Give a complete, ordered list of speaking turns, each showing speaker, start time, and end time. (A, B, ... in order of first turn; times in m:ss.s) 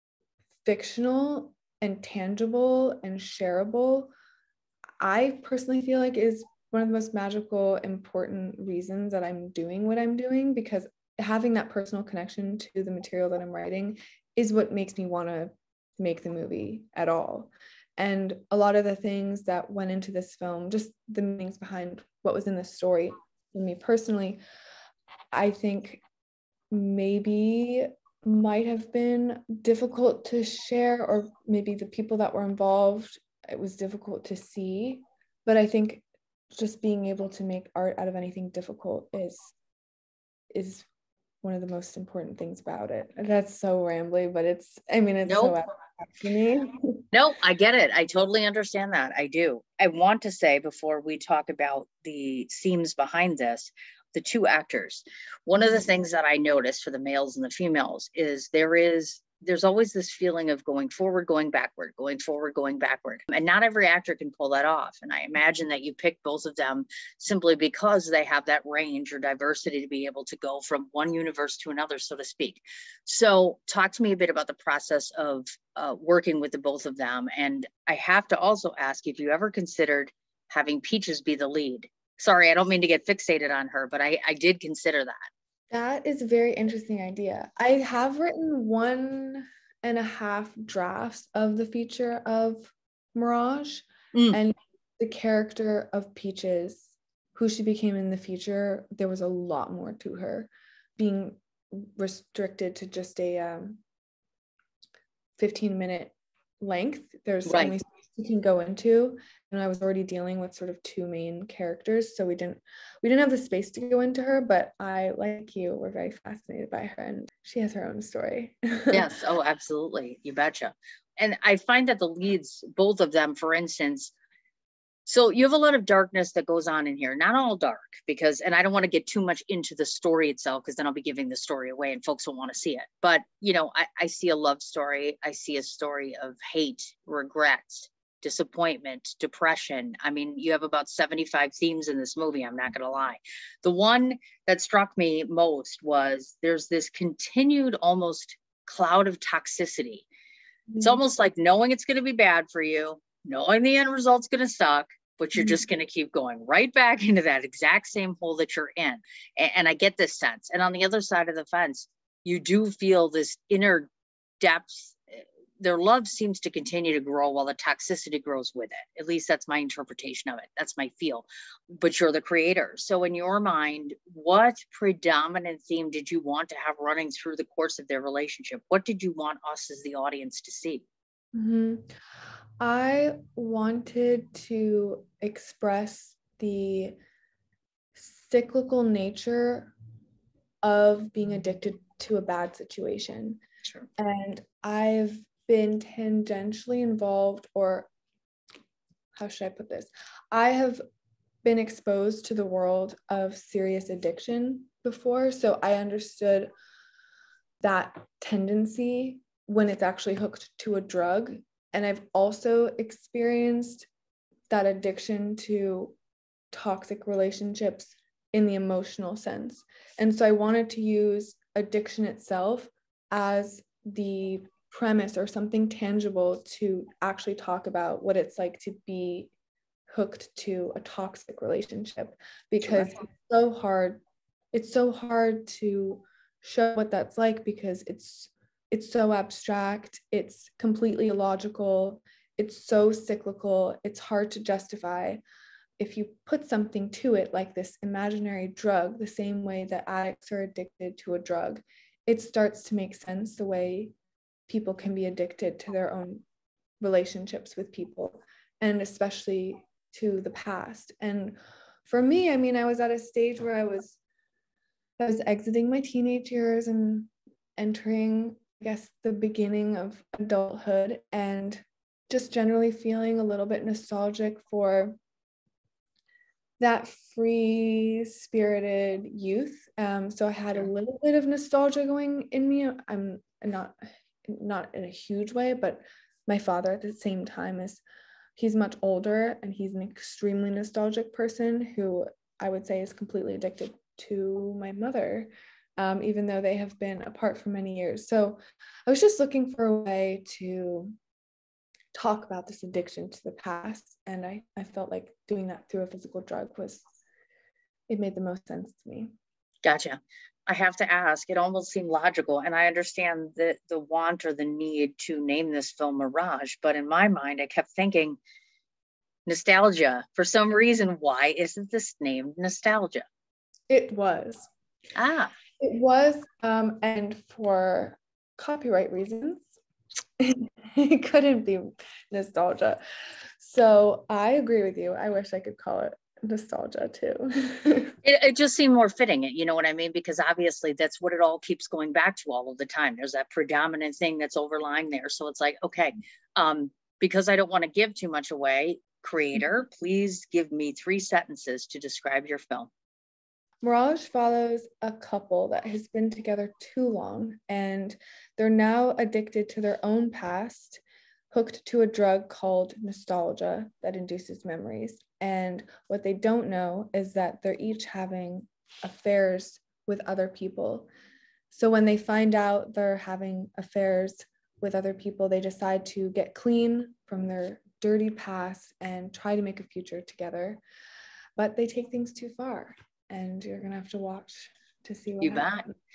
0:00.6-0:04.1 A
0:05.0-0:24.4 A
0:25.3-0:26.0 A
0:26.7-0:39.5 A
0:40.5-0:40.9 A
0:41.4-0:47.0 A
0:45.3-0:45.6 B
0:47.1-1:25.3 B
1:25.7-1:43.8 A
1:34.1-1:34.4 B
1:45.4-1:59.1 A
1:47.5-1:47.8 B
1:58.9-2:04.1 B
2:05.1-2:30.1 B
2:30.7-2:31.0 A
2:30.8-2:43.9 B
2:35.4-2:35.6 A
2:44.4-3:00.8 B
3:01.3-3:01.9 A
3:02.6-3:07.0 A
3:08.0-3:09.7 A
3:10.6-3:13.4 A
3:14.0-3:17.9 A
3:19.2-3:20.8 A
3:21.4-3:26.5 A
3:27.6-3:33.9 A
3:34.5-3:36.0 A
3:36.5-3:49.3 A
3:49.9-4:05.2 A
4:05.8-4:14.0 A
4:14.5-4:16.3 A
4:16.8-4:24.0 A
4:25.0-4:35.0 A
4:36.6-4:47.8 A
4:48.4-5:01.0 A
5:01.9-5:06.8 A
5:07.9-5:09.1 A
5:09.6-5:18.2 B
5:19.3-5:23.1 B
5:23.7-5:24.5 A
5:25.0-5:25.3 B
5:25.6-5:29.5 A
5:30.2-5:32.8 A
5:33.4-5:38.0 A
5:38.0-5:52.7 B
5:53.6-6:10.9 A
6:11.5-6:20.6 A
6:21.4-6:25.7 A
6:25.2-6:25.7 B